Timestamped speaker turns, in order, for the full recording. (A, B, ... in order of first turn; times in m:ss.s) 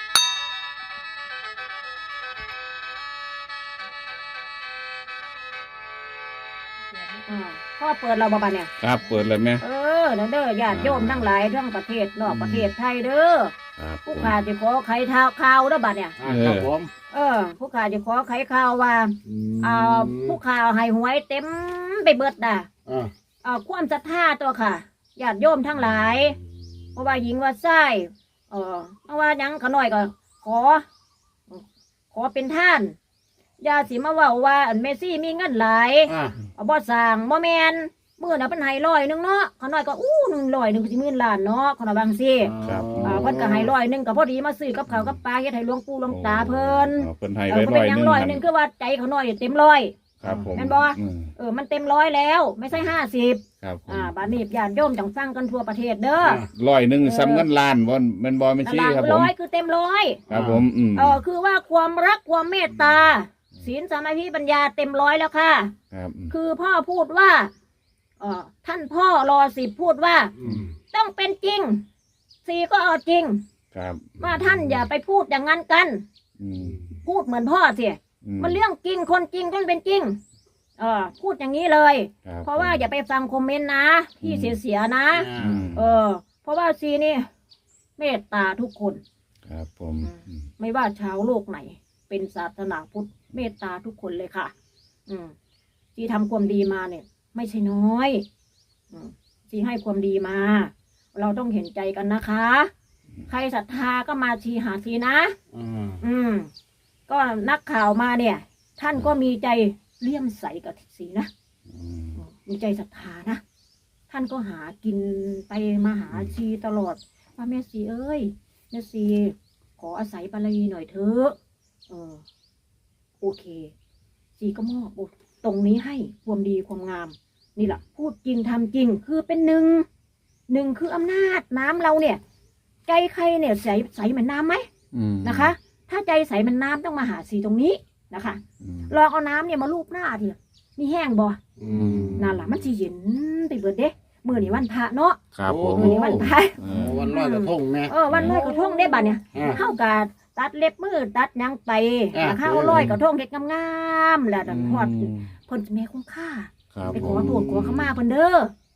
0:07.2-0:08.7 A
0:08.8-0:09.6 B
0:09.6-0:13.5 A
0:10.7-0:11.3 B
0:12.3-0:12.7 B
0:13.8-0:14.4 B
0:14.0-0:16.2 A
0:16.2-0:16.9 C
0:16.2-0:16.7 B
0:17.1-0:22.7 A
0:19.2-0:20.4 C
0:22.8-0:23.1 C
0:23.4-0:26.4 A
0:27.0-0:30.8 A
0:31.5-0:33.0 A
0:33.6-0:42.5 A
0:36.1-0:36.4 C
0:42.4-0:43.7 C
0:42.6-0:43.2 B
0:43.0-0:50.0 A
0:46.1-0:48.4 B
0:50.2-0:51.3 B
0:50.2-0:50.5 C
0:50.6-0:56.4 A
0:53.6-0:54.2 B
0:56.2-0:56.5 C
0:56.5-0:59.3 B
0:57.0-0:57.5 A
0:58.6-1:00.2 A
1:00.3-1:00.7 C
1:00.3-1:01.2 B
1:01.0-1:05.7 A
1:05.9-1:06.3 B
1:06.3-1:07.5 A
1:08.2-1:10.3 A
1:10.4-1:10.8 C
1:10.9-1:11.8 A
1:12.4-1:13.4 A
1:13.7-1:14.1 B
1:14.2-1:14.8 C
1:14.2-1:16.0 A
1:16.4-1:16.8 B
1:17.0-1:20.2 A
1:18.2-1:18.6 B
1:20.8-1:27.3 A
1:22.3-1:22.8 B
1:24.2-1:24.6 B
1:25.1-1:25.7 C
1:25.4-1:25.8 B
1:28.0-1:29.0 A
1:29.5-1:30.4 B
1:30.0-1:34.5 A
1:35.1-1:35.3 A
1:36.0-1:38.2 A
1:38.9-1:42.7 A
1:43.3-1:45.4 A
1:45.5-1:46.0 C
1:46.0-1:46.5 A
1:47.1-1:51.3 A
1:51.7-1:52.2 B
1:52.2-1:53.4 A
1:54.1-2:01.4 A
2:01.9-2:02.2 A
2:03.2-2:03.7 A
2:04.4-2:09.9 A
2:10.5-2:12.2 A
2:12.9-2:14.7 A
2:14.9-2:15.5 B
2:15.2-2:21.4 A
2:18.6-2:18.9 B
2:21.6-2:22.2 C
2:21.7-2:22.6 B
2:22.2-2:25.2 A
2:25.3-2:26.0 B
2:25.5-2:28.5 C
2:25.8-2:38.5 A
2:26.6-2:27.0 B
2:28.1-2:28.4 B
2:29.3-2:29.6 C
2:32.1-2:33.0 C
2:34.5-2:35.3 B
2:36.7-2:37.4 B
2:36.9-2:37.9 C